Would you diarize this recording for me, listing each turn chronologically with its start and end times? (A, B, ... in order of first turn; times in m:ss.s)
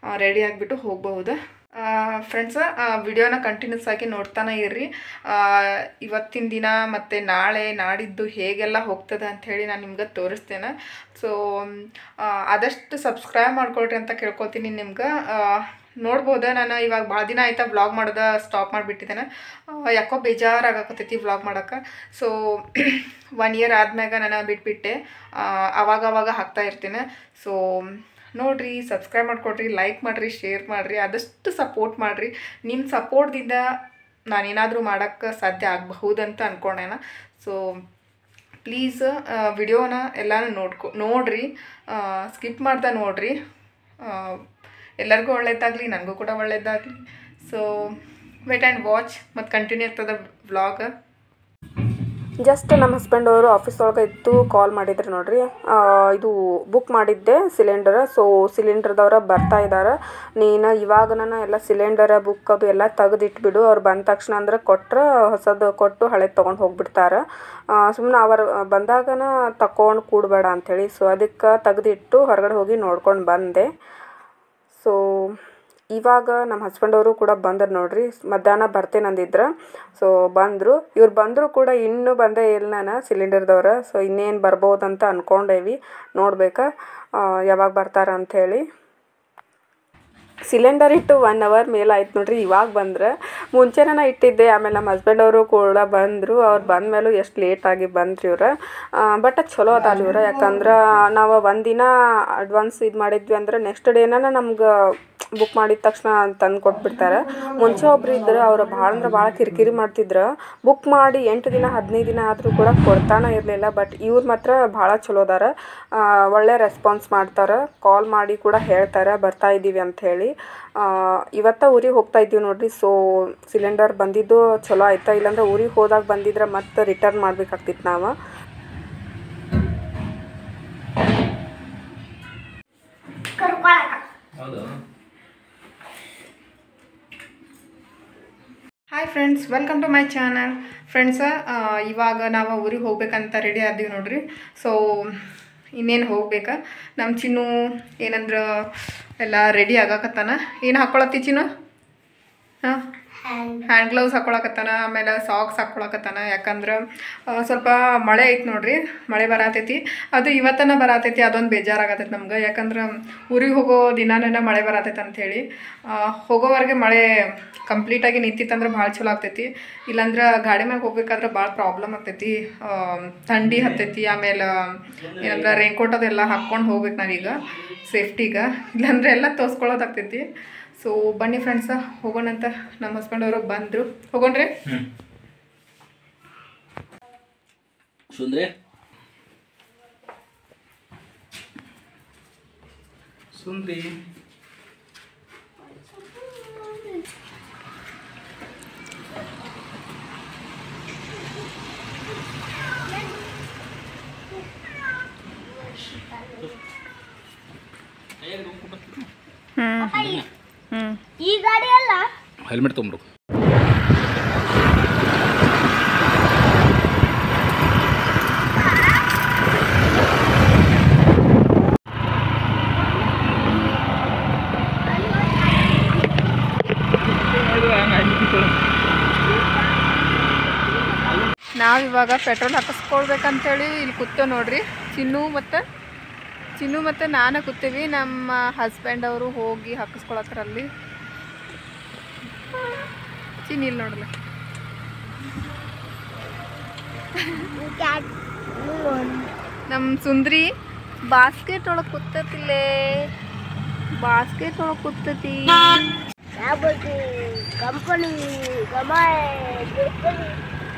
0:00.1-0:33.6 A
0:34.3-0:37.6 A
0:38.6-0:43.3 A
0:44.1-0:44.4 A
0:45.0-0:47.9 A
0:48.5-0:50.9 A
0:52.4-1:07.2 B
1:07.8-1:13.7 B
1:14.8-1:15.4 B
1:15.9-1:26.6 B
1:27.2-1:28.6 B
1:30.5-1:41.9 B
1:42.4-1:44.7 B
1:45.4-2:08.1 B
2:13.4-2:14.0 C
2:14.3-2:14.7 D
2:18.9-2:25.2 A
2:25.8-2:27.5 A
2:28.0-2:28.4 A
2:29.2-2:31.4 A
2:33.2-2:33.7 C
2:33.7-2:36.8 A
2:37.3-2:45.4 A
2:45.9-2:47.0 A
2:47.7-2:54.5 A
2:55.1-3:00.2 A
3:00.8-3:04.5 A
3:08.1-3:08.5 D
3:13.4-3:13.9 D
3:15.7-3:16.9 C
3:22.8-3:23.2 C
3:25.5-3:26.6 C
3:28.2-3:29.0 D
3:29.6-3:30.0 A
3:29.8-3:30.2 C
3:31.2-3:32.1 C
3:32.4-3:33.0 D
3:44.8-3:46.2 C
3:47.0-3:48.5 D
3:49.2-3:51.1 C
3:51.6-3:55.6 A
3:56.6-4:00.7 A
4:03.5-4:04.1 A
4:07.6-4:09.3 C
4:09.7-4:10.5 A
4:11.1-4:12.6 A
4:14.0-4:15.6 A
4:16.4-4:20.4 C